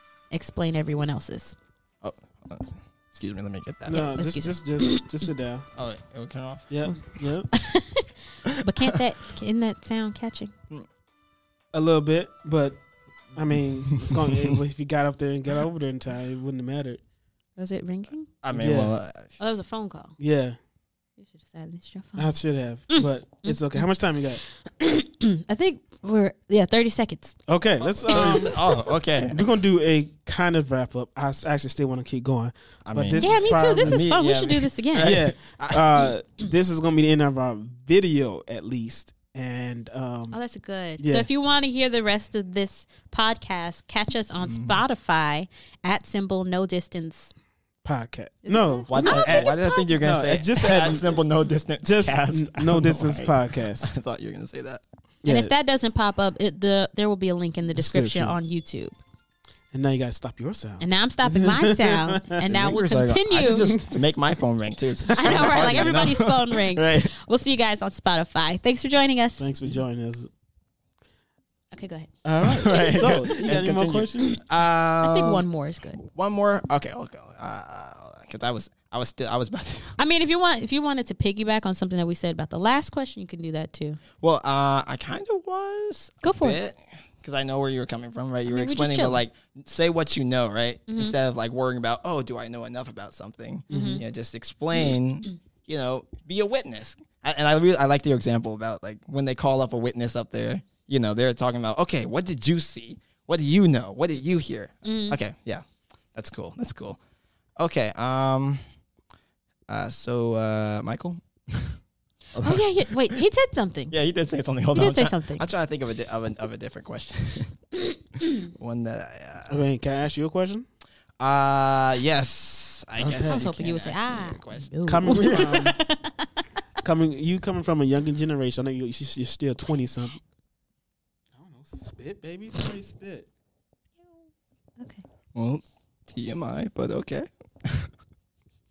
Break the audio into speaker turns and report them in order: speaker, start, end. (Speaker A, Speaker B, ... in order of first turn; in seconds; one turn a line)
Speaker A: 0.3-1.6
Speaker B: 2.0-4.1
Speaker C: 3.9-5.7
Speaker A: 3.9-5.0
Speaker B: 5.8-6.8
Speaker C: 6.7-7.5
Speaker A: 7.5-10.5
Speaker B: 8.4-9.0
Speaker C: 11.7-12.8
Speaker C: 13.3-17.0
Speaker B: 14.1-14.4
Speaker A: 17.6-18.3
Speaker B: 18.4-19.4
Speaker C: 18.5-18.9
Speaker A: 19.4-20.2
Speaker C: 20.2-20.6
Speaker A: 21.2-22.3
Speaker C: 22.1-24.4
Speaker A: 22.9-23.9
Speaker A: 24.5-27.4
Speaker C: 27.5-28.6
Speaker B: 27.8-29.4
Speaker A: 28.1-28.8
Speaker C: 29.3-34.0
Speaker B: 32.9-36.1
Speaker A: 33.2-35.1
Speaker C: 35.0-40.4
Speaker A: 40.3-47.3
Speaker C: 41.0-41.3
Speaker B: 44.4-44.8
Speaker C: 47.8-51.2
Speaker A: 48.5-50.0
Speaker B: 48.9-54.8
Speaker C: 51.8-53.9
Speaker C: 55.2-55.5
Speaker A: 55.2-58.9
Speaker C: 57.7-58.4
Speaker C: 59.7-62.4
Speaker A: 60.8-63.7
Speaker B: 62.4-67.1
Speaker C: 63.6-63.9
Speaker A: 65.1-69.5
Speaker C: 65.2-65.8
Speaker C: 69.4-70.3
Speaker A: 71.7-72.1
Speaker C: 72.2-74.3
Speaker B: 72.4-75.5
Speaker A: 75.0-76.0
Speaker B: 76.0-80.0
Speaker A: 80.0-84.0
Speaker B: 84.2-107.0
Speaker A: 86.2-86.6
Speaker A: 88.5-89.2
Speaker A: 90.9-91.2
Speaker C: 93.7-94.0
Speaker A: 93.7-94.0
Speaker A: 104.8-105.2
Speaker B: 107.6-108.6
Speaker B: 109.7-111.8
Speaker B: 112.3-113.2
Speaker A: 112.4-113.9
Speaker B: 113.9-117.6
Speaker A: 114.7-115.5
Speaker A: 117.8-118.5
Speaker B: 118.4-119.6
Speaker C: 119.5-120.7
Speaker B: 121.2-125.6
Speaker C: 123.0-123.4
Speaker A: 123.2-126.3
Speaker C: 124.8-125.8
Speaker C: 126.8-130.2
Speaker C: 131.3-133.3
Speaker A: 134.8-135.1
Speaker B: 135.3-137.9